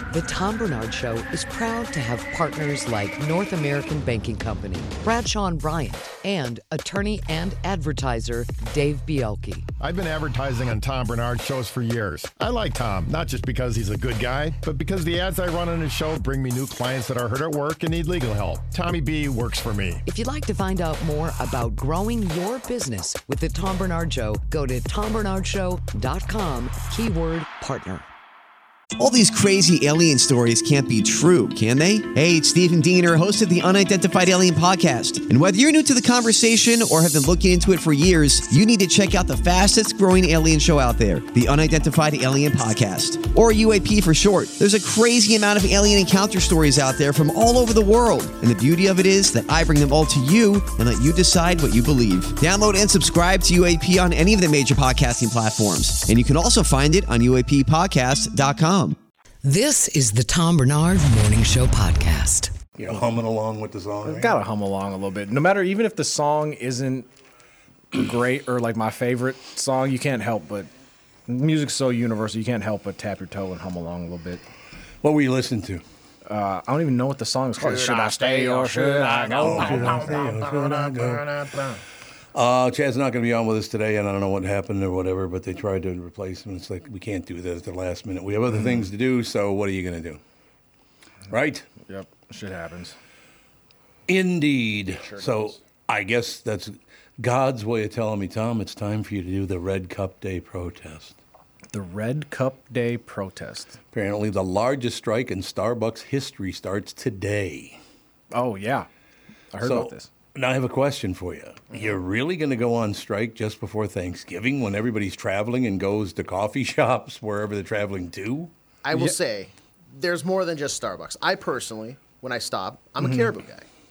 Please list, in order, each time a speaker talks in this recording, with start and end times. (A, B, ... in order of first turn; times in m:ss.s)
0:00.1-0:09.7 A
0:09.8-0:20.0 B
0:20.1-0:28.1 A
0:29.0-0:59.0 C
0:59.4-1:02.5 A
1:02.8-1:04.4 D
1:04.0-1:07.1 E
1:07.9-1:10.7 E
1:11.3-1:14.4 E
1:15.0-1:15.8 D
1:16.3-1:20.2 E
1:17.6-1:21.1 F
1:19.4-1:21.2 D
1:22.4-1:30.2 D
1:28.5-1:28.9 E
1:31.3-1:31.7 D
1:31.9-1:33.0 E
1:34.1-1:41.2 D
1:35.0-1:35.6 F
1:41.7-1:43.8 E
1:43.9-1:47.8 D
1:48.3-1:48.9 E
1:49.5-1:50.1 E
1:49.6-1:58.5 D
1:58.8-2:03.7 F
2:03.0-2:03.3 E